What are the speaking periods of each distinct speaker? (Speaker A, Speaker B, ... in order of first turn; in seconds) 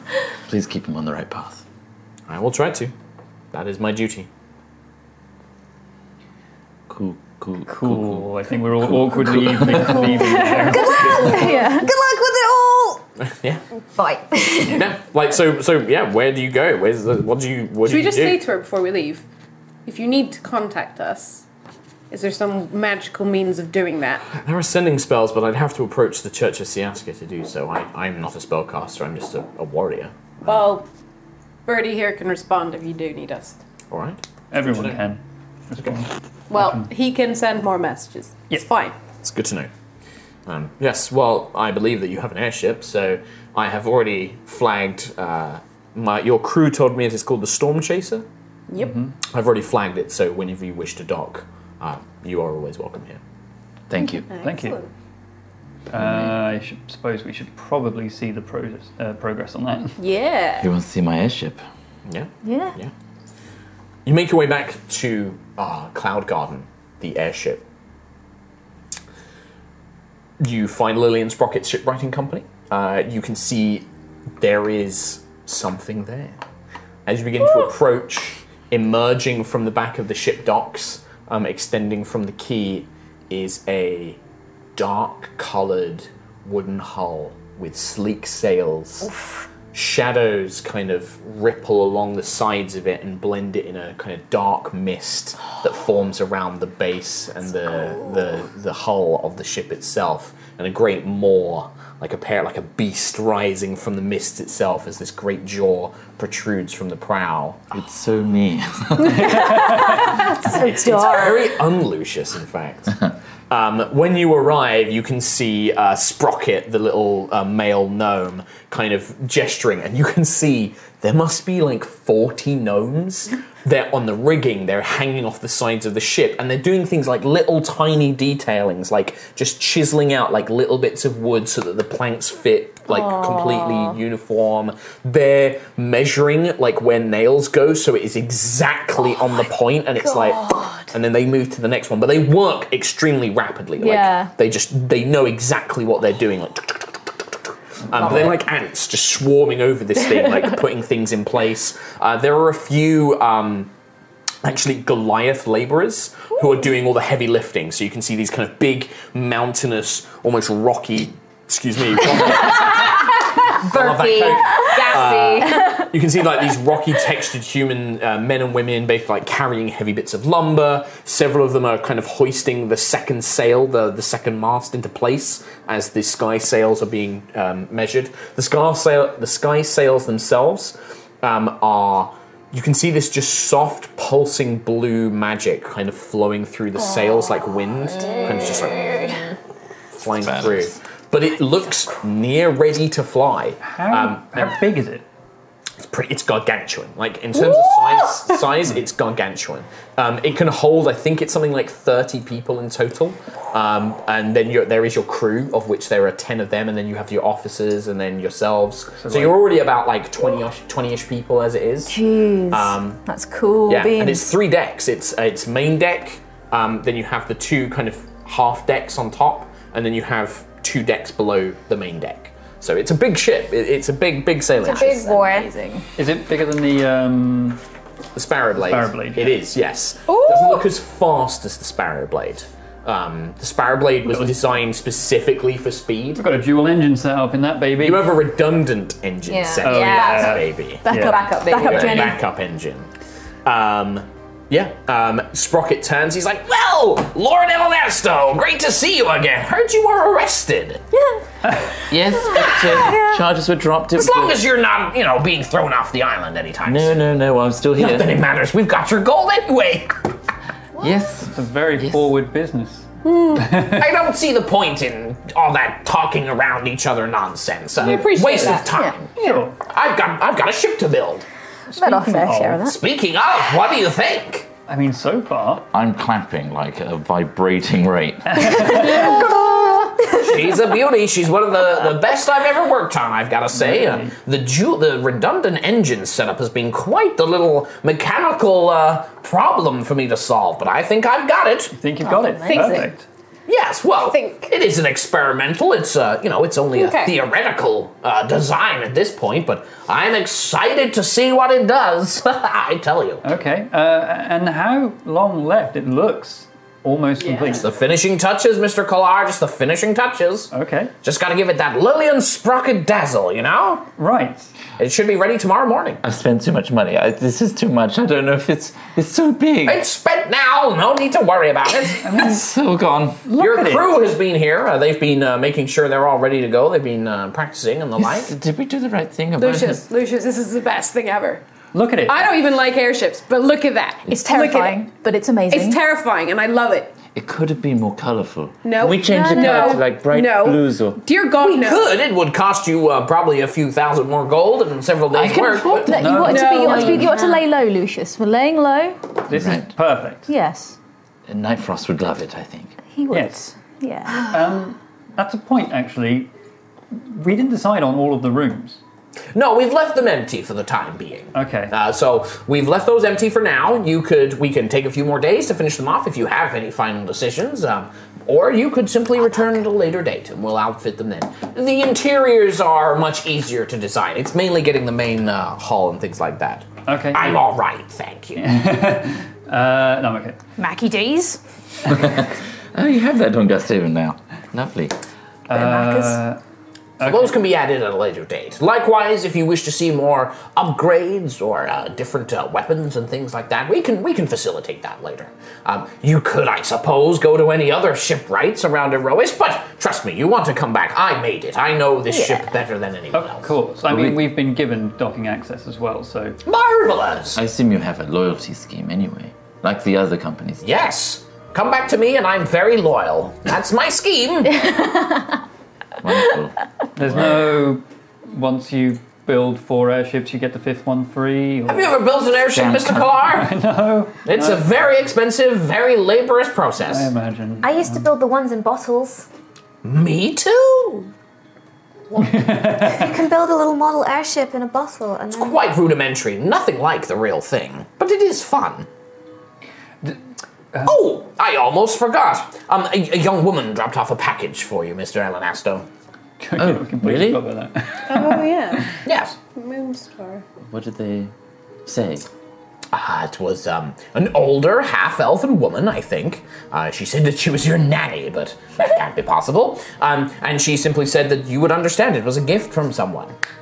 Speaker A: 0.5-1.6, 6.9-10.5, 53.9-54.2, 56.0-56.3, 60.6-61.6, 107.7-109.5, 190.1-190.8, 251.9-254.4, 256.6-258.2, 260.8-262.1, 275.7-279.0, 316.0-319.8, 322.1-323.2, 328.0-329.9, 337.1-341.0, 345.1-346.8, 349.3-349.7, 351.3-352.8, 381.9-384.9, 403.9-404.2, 407.3-410.9, 416.0-417.5, 422.5-423.2, 446.6-447.4, 450.6-451.3, 451.8-452.3
Speaker B: 2.3-2.9, 3.5-4.3, 11.1-11.5, 13.2-13.6, 14.7-18.4, 24.3-30.7, 33.9-35.0, 39.2-39.7, 40.5-48.2, 49.3-53.2, 62.0-62.9, 64.0-67.6, 70.4-73.9, 74.4-76.4, 77.0-84.2, 84.8-89.1, 89.7-107.6, 110.4-147.1, 147.9-153.7, 154.4-189.2, 189.9-194.5, 195.8-212.0, 212.5-213.0, 213.7-225.0, 228.1-236.2, 237.8-242.9, 243.4-250.8, 253.9-257.0, 257.8-259.9, 263.6-271.2, 272.6-274.5, 280.1-291.7, 293.5-303.2, 307.6-310.5, 311.0-313.9, 314.8-316.0, 319.6-322.1, 323.4-328.3, 341.4-345.9, 359.3-378.5, 387.0-403.5, 406.4-407.4, 410.6-414.6, 421.7-423.5, 424.2-427.1, 429.8-431.1, 435.3-438.9, 440.8-445.9, 449.0-449.4, 452.9-463.3
Speaker C: 7.7-11.4, 34.5-36.9, 48.8-49.1, 54.4-54.8, 55.9-60.0, 109.2-110.0, 193.6-195.1, 209.0-209.4, 226.0-227.6, 228.6-229.4, 234.1-234.3, 236.1-238.1, 239.6-241.2, 261.3-263.9, 269.2-269.6, 271.7-272.6, 274.7-275.7, 278.3-279.3, 283.5-284.1, 291.7-293.1, 303.2-307.6, 310.5-310.9, 314.0-314.5, 322.0-322.4, 323.2-324.0, 331.7-332.3, 345.9-347.0, 349.3-350.3, 353.1-353.5, 354.2-356.3, 356.9-358.8, 361.3-361.7, 376.9-377.4, 378.4-380.4, 385.5-386.4, 387.0-387.4, 403.1-406.4, 416.9-421.9, 423.2-424.6, 426.8-428.0, 432.2-433.1, 446.4-448.4
Speaker D: 10.3-13.0, 13.9-14.9, 109.9-111.5, 132.9-133.6, 162.3-165.8, 188.1-189.2, 212.1-212.7, 224.6-225.6, 239.3-242.1, 402.1-402.4, 427.6-429.3, 432.3-435.6
Speaker E: 11.1-11.9, 62.4-62.7, 143.9-144.2, 212.1-214.2, 224.7-225.8, 230.2-230.6, 240.8-242.2, 271.7-272.8, 278.8-279.2, 334.1-335.8, 339.0-339.8, 345.9-349.1, 350.3-350.8, 352.9-354.3, 380.6-381.4, 385.5-386.2
Speaker F: 17.8-19.2, 19.9-21.4, 22.1-24.2, 30.4-30.9, 31.6-33.5, 36.5-39.0, 48.7-49.0, 54.3-54.9, 60.0-60.7, 263.0-263.5, 267.8-269.5, 292.4-292.9, 294.0-294.5, 296.7-297.2, 307.2-307.6, 329.4-331.4, 332.0-334.8, 335.5-336.9, 338.6-341.9, 346.2-347.3, 448.1-448.9, 449.5-450.4